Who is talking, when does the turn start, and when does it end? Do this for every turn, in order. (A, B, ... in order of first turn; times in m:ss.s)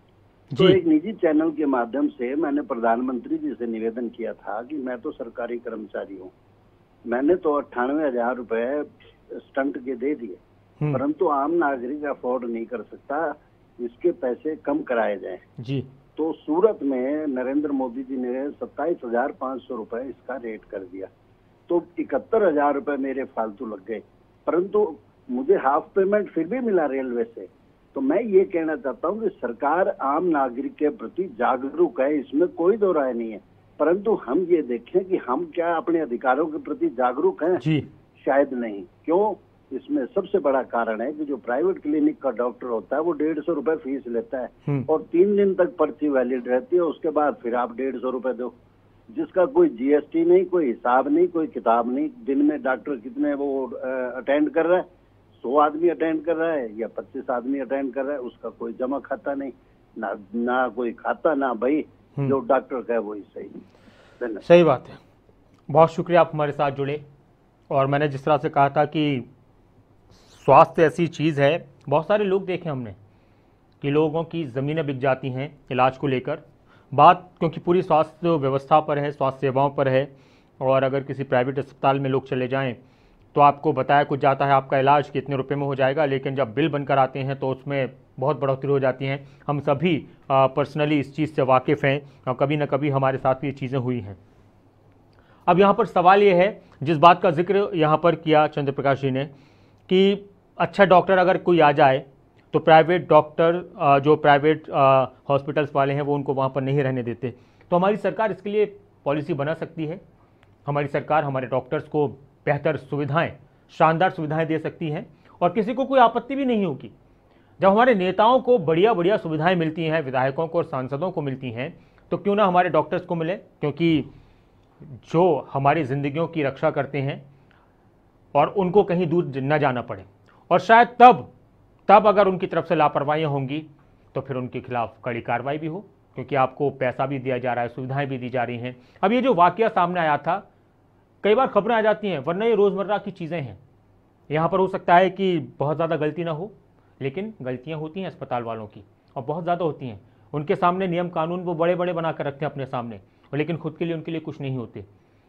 0:00.5-0:00.8 A
0:00.6-0:06.3 B
0:07.1-0:10.4 B
0:10.9-0:15.4 B
0:15.6-0:15.9 A
0:16.2-0:21.1 B
0:21.7-0:37.6 B
0:37.6-0:37.9 A
0:38.2-0:48.5 B
0:49.1-0:54.9 B
0:55.4-1:03.6 B
1:04.4-1:05.0 A
1:05.7-1:07.0 A
1:07.7-1:09.3 A
1:10.1-1:13.0 A
1:13.8-1:22.8 A
1:23.3-1:34.2 A
1:35.4-1:39.3 A
1:39.9-1:50.0 A
1:50.6-1:56.9 A
1:57.6-2:04.1 A
2:04.8-2:07.2 A
2:08.3-2:11.3 A
2:11.9-2:20.4 A
2:21.2-2:23.6 A
2:24.3-2:34.9 A